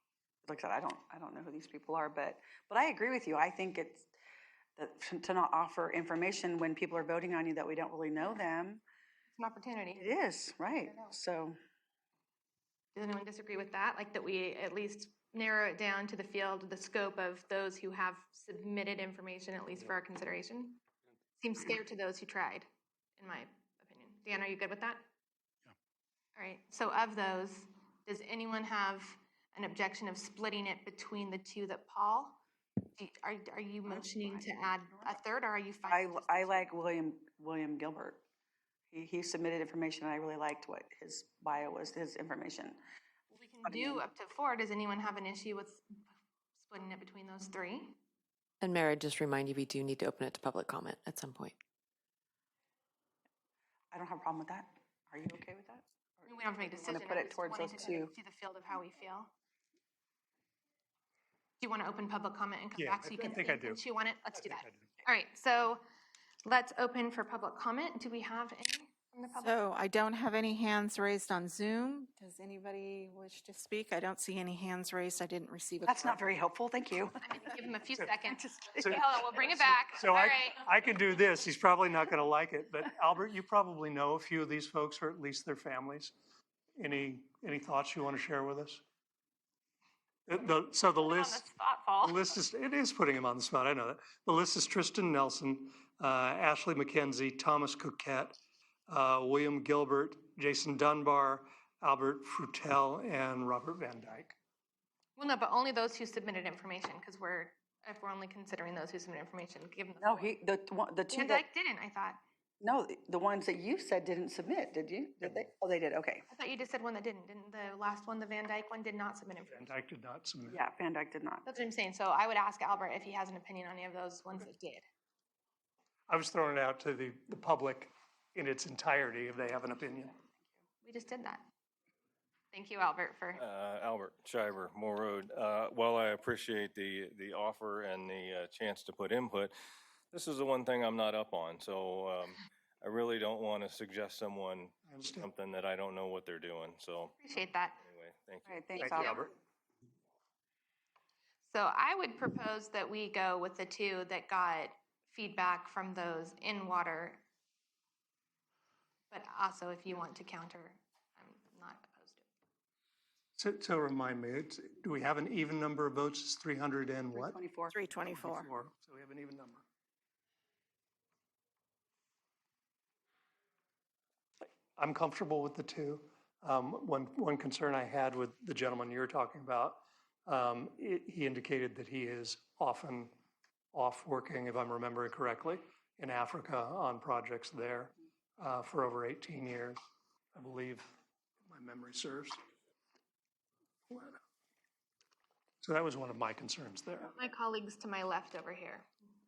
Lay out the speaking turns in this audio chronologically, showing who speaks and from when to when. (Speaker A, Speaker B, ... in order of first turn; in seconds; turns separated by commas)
Speaker A: 0.5-4.1, Speaker A: 4.8-8.8, Speaker B: 9.3-10.1, Speaker A: 10.0-11.6, Speaker B: 12.9-20.8, Speaker B: 21.4-22.7, Speaker B: 23.2-25.0, Speaker B: 26.4-32.4, Speaker B: 33.0-36.7, Speaker A: 33.9-35.2, Speaker A: 35.9-38.2, Speaker A: 38.9-42.8, Speaker B: 43.3-46.0, Speaker A: 43.6-44.0, Speaker B: 46.5-48.0, Speaker C: 48.6-51.5, Speaker A: 53.9-58.1, Speaker B: 56.2-59.3, Speaker B: 61.6-65.8, Speaker D: 62.7-64.9, Speaker B: 66.5-69.7, Speaker E: 69.4-76.1, Speaker A: 75.8-77.2, Speaker B: 77.2-80.6, Speaker D: 78.0-79.1, Speaker D: 79.9-86.2, Speaker D: 86.8-88.8, Speaker D: 90.3-91.4, Speaker B: 91.0-92.2, Speaker D: 92.0-98.4, Speaker D: 98.9-104.4, Speaker B: 105.2-110.4, Speaker A: 110.0-111.4, Speaker B: 111.1-112.2, Speaker A: 112.6-116.2, Speaker B: 116.3-119.7, Speaker D: 119.5-120.6, Speaker A: 120.5-121.5, Speaker B: 121.5-124.8, Speaker D: 126.1-130.1, Speaker B: 130.8-131.4, Speaker B: 132.5-133.4, Speaker F: 133.4-139.5, Speaker F: 140.1-147.1, Speaker D: 144.9-145.3, Speaker B: 147.2-147.8, Speaker F: 147.8-148.6, Speaker A: 148.4-149.2, Speaker D: 148.8-149.3, Speaker B: 148.9-149.2, Speaker B: 151.4-157.2, Speaker B: 159.1-162.3, Speaker D: 163.4-167.4, Speaker A: 167.1-167.8, Speaker E: 167.7-168.5, Speaker D: 168.1-169.7, Speaker D: 174.8-183.1, Speaker D: 183.7-189.8, Speaker D: 190.3-190.9, Speaker D: 191.5-192.4, Speaker D: 193.9-194.2, Speaker D: 195.6-197.1, Speaker B: 197.1-198.9